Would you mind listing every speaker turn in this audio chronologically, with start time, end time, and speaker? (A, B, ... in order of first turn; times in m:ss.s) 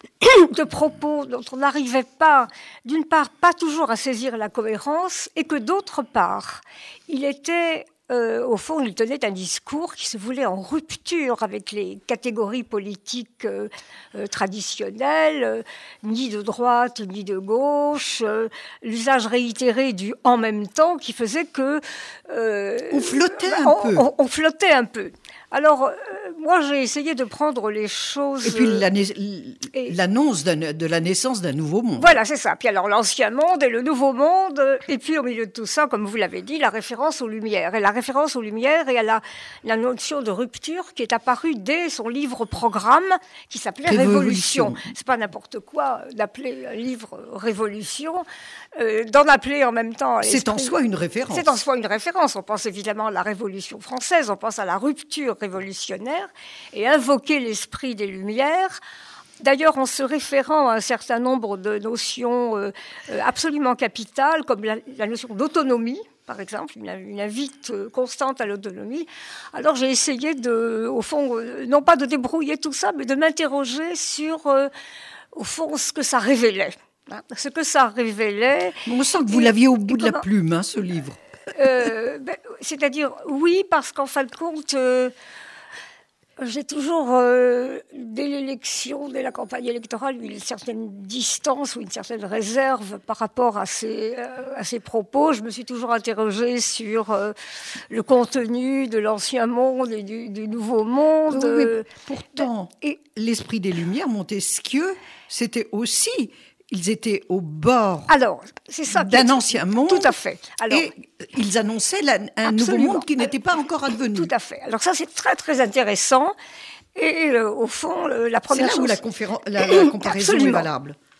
0:00.2-0:28.8 A
0:22.9-0:24.1 B
0:28.4-0:32.2 B
0:32.0-0:48.2 A
0:43.8-0:44.8 B
0:48.8-0:50.7 A
0:50.2-0:51.6 B
0:51.3-0:58.8 A
0:59.4-1:14.7 A
1:15.3-1:20.2 A
1:18.8-1:21.9 B
1:21.6-1:25.1 A
1:26.4-1:37.3 A
1:37.9-1:41.9 A
1:41.3-1:48.1 B
1:42.4-1:43.0 A
1:48.1-1:50.9 A
1:48.9-1:50.1 B
1:50.7-1:54.3 B
1:52.4-1:53.3 A
1:54.1-1:56.3 A
1:57.0-1:59.0 A
1:58.5-2:01.0 B
1:59.6-2:00.7 A